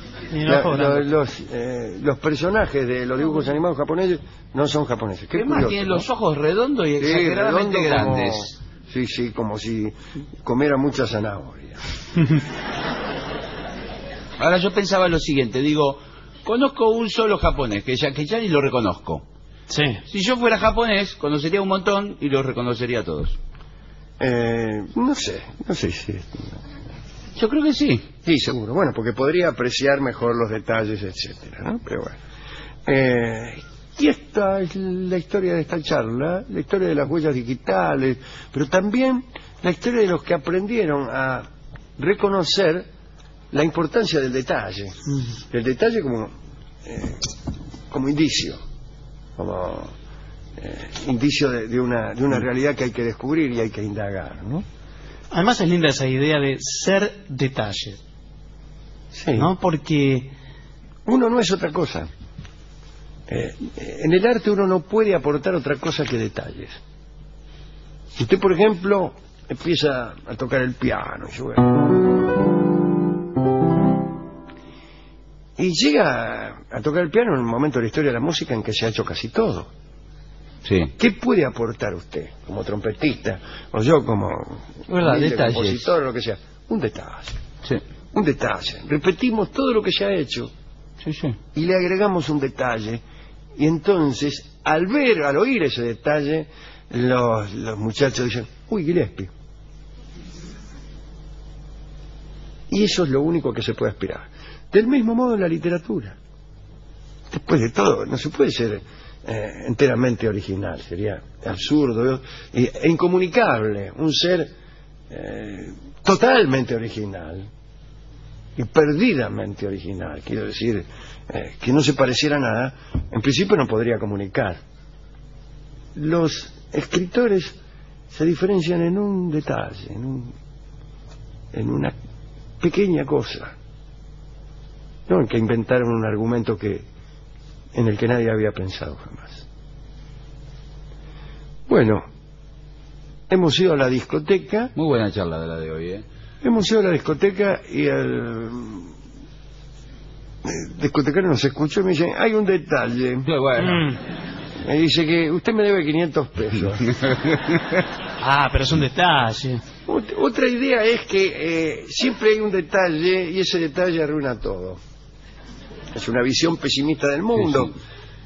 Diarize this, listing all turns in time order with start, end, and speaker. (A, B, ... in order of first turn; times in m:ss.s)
0:00.3-0:01.0 A
0:00.4-0:06.1 B
0:05.3-0:08.5 C
0:07.0-0:11.8 B
0:14.4-0:19.2 C
0:19.7-0:20.0 A
0:20.1-0:23.4 C
0:24.2-0:26.5 B
0:27.4-0:28.1 C
0:28.2-0:32.2 B
0:32.9-0:42.9 B
0:43.5-0:46.3 B
0:46.8-0:47.3 B
0:47.9-0:48.6 B
0:49.4-0:49.9 B
0:50.6-0:54.6 B
0:55.3-0:58.0 A
0:59.1-0:59.5 B
0:59.4-1:00.3 A
1:01.1-1:02.1 B
1:03.3-1:06.8 B
1:08.2-1:11.9 B
1:15.6-1:19.7 B
1:20.6-1:20.9 C
1:21.0-1:27.4 B
1:24.9-1:25.9 C
1:28.1-1:30.5 B
1:31.0-1:31.4 C
1:31.5-1:33.0 B
1:33.6-1:39.3 B
1:42.7-1:46.2 B
1:47.3-1:54.5 B
1:55.1-1:57.5 B
1:58.6-2:04.6 B
2:06.0-2:07.6 B
2:08.1-2:10.4 B
2:11.5-2:12.0 B
2:12.6-2:13.6 B
2:15.1-2:16.9 B
2:17.7-2:19.4 B
2:21.7-2:22.0 B
2:23.3-2:24.7 B
2:24.8-2:26.0 C
2:26.4-2:28.9 B
2:30.4-2:33.3 B
2:33.2-2:33.9 C
2:33.7-2:33.9 A
2:34.6-2:37.0 B
2:38.2-2:39.6 A
2:39.9-2:44.8 B
2:45.9-2:47.8 B